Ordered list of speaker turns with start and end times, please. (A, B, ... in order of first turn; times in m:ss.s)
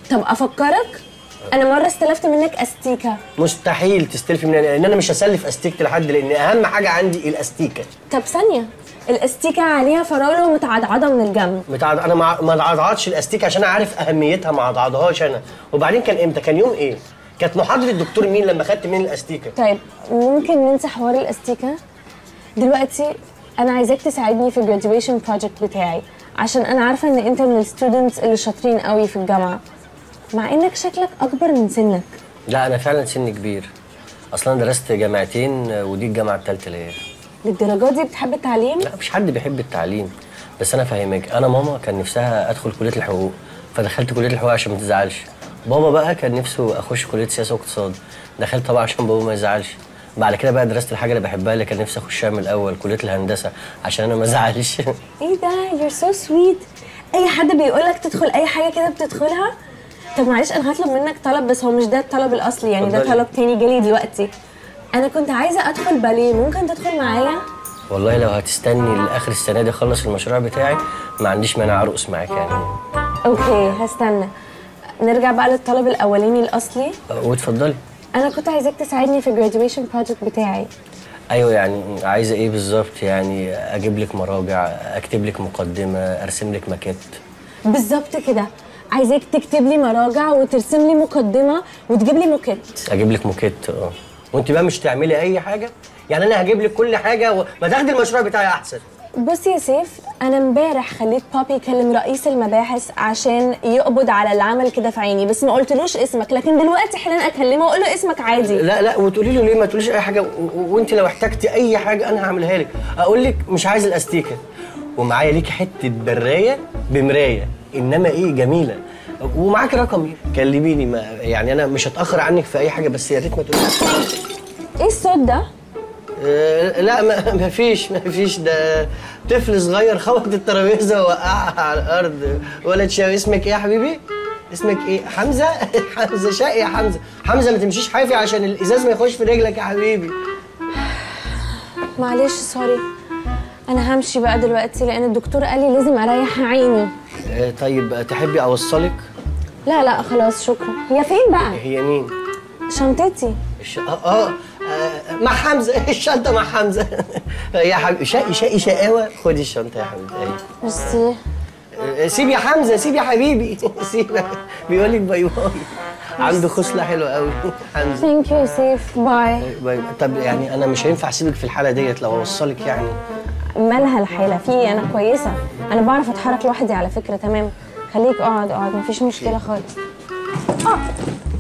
0:00.1-0:03.2 A
0:03.4-0:07.9 B
0:08.1-0:11.6 A
0:11.7-0:19.6 B
0:19.6-0:21.8 A
0:22.6-0:29.6 A
0:30.3-0:32.1 A
0:32.5-0:33.7 B
0:34.3-0:37.0 B
0:37.4-0:38.9 A
0:38.8-0:54.9 B
0:55.2-0:59.5 A
1:00.2-1:04.3 A
1:02.8-1:03.2 B
1:04.9-1:07.4 A
1:07.9-1:12.8 B
1:13.3-1:14.3 A
1:13.3-1:13.8 B
1:15.0-1:17.0 A
1:17.1-1:17.8 B
1:18.1-1:20.7 A
1:21.3-1:27.0 B
1:27.7-1:32.8 A
1:32.9-1:38.8 B
1:39.2-1:48.6 A
1:48.5-1:54.4 B
1:55.0-2:04.1 B
2:04.8-2:05.5 A
2:06.2-2:20.2 B
2:22.0-2:22.8 A
2:23.7-2:26.9 A
2:27.3-2:29.0 B
2:29.7-2:31.6 A
2:31.5-2:32.1 B
2:32.7-2:33.4 A
2:33.6-2:40.4 B
2:40.6-2:41.2 A
2:41.8-2:48.1 B
2:48.0-2:49.5 A
2:49.4-2:53.0 B
2:53.6-2:59.7 A